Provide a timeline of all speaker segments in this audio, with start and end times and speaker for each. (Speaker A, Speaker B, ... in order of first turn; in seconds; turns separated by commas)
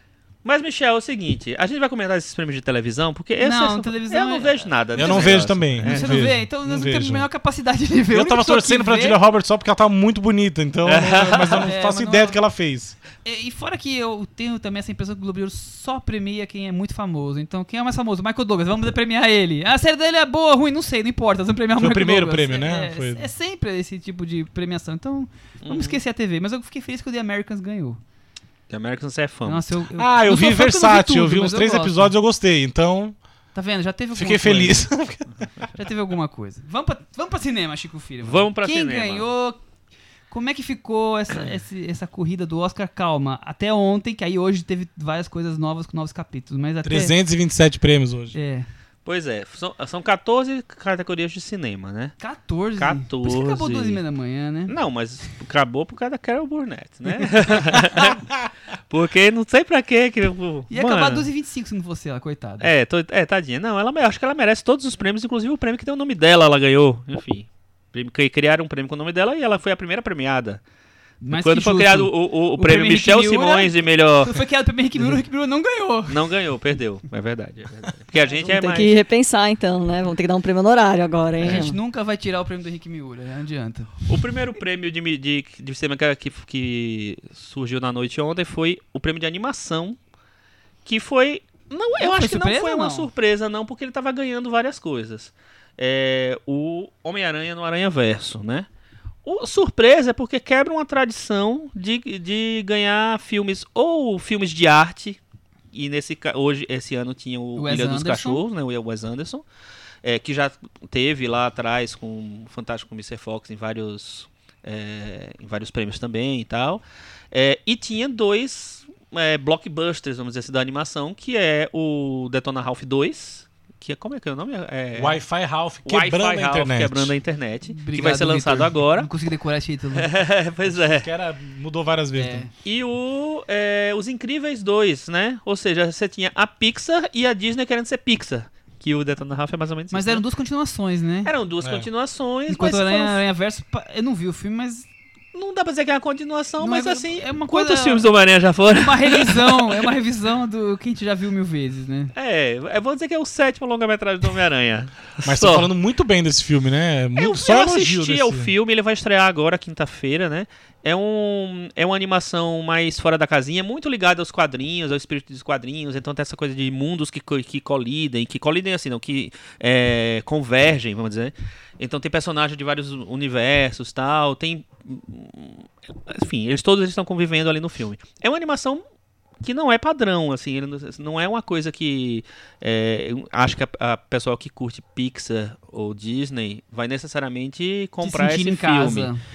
Speaker A: 0.4-6.3, Speaker B: 3.4-9.2, Speaker C: 5.0-7.3, Speaker C: 8.1-13.0, Speaker A: 10.8-11.7, Speaker B: 11.7-12.4, Speaker B: 13.2-28.0, Speaker C: 21.8-23.3, Speaker A: 25.6-26.0, Speaker A: 28.7-29.6, Speaker B: 29.5-32.1, Speaker C: 30.0-33.2, Speaker B: 33.5-34.9, Speaker C: 34.1-35.3, Speaker B: 35.8-39.6, Speaker A: 38.2-39.3, Speaker B: 40.3-47.1, Speaker C: 46.8-48.4, Speaker B: 48.3-48.7, Speaker A: 49.0-52.2, Speaker B: 52.2-54.7, Speaker A: 52.8-54.0, Speaker A: 54.7-58.3, Speaker A: 58.9-61.3, Speaker B: 60.7-62.7, Speaker A: 62.6-70.6, Speaker B: 71.2-76.2, Speaker A: 71.3-74.4, Speaker A: 76.1-79.0, Speaker D: 78.3-81.8, Speaker B: 81.4-84.1, Speaker A: 84.1-90.0, Speaker A: 90.8-98.7, Speaker B: 92.0-93.1, Speaker A: 99.2-105.2, Speaker A: 105.7-109.5, Speaker B: 107.6-108.4, Speaker A: 110.0-125.2, Speaker C: 124.9-127.2, Speaker A: 125.8-129.1, Speaker B: 127.7-130.1, Speaker A: 129.9-131.1, Speaker C: 130.7-132.5, Speaker B: 132.2-132.5, Speaker A: 132.6-140.2, Speaker B: 139.9-141.3, Speaker A: 141.2-143.2, Speaker C: 141.6-141.9, Speaker B: 142.5-144.9, Speaker A: 145.3-149.8, Speaker B: 146.6-148.1, Speaker B: 148.7-152.1, Speaker A: 152.2-155.7, Speaker C: 155.2-158.5, Speaker A: 157.2-178.8, Speaker A: 179.4-189.1, Speaker B: 188.0-189.2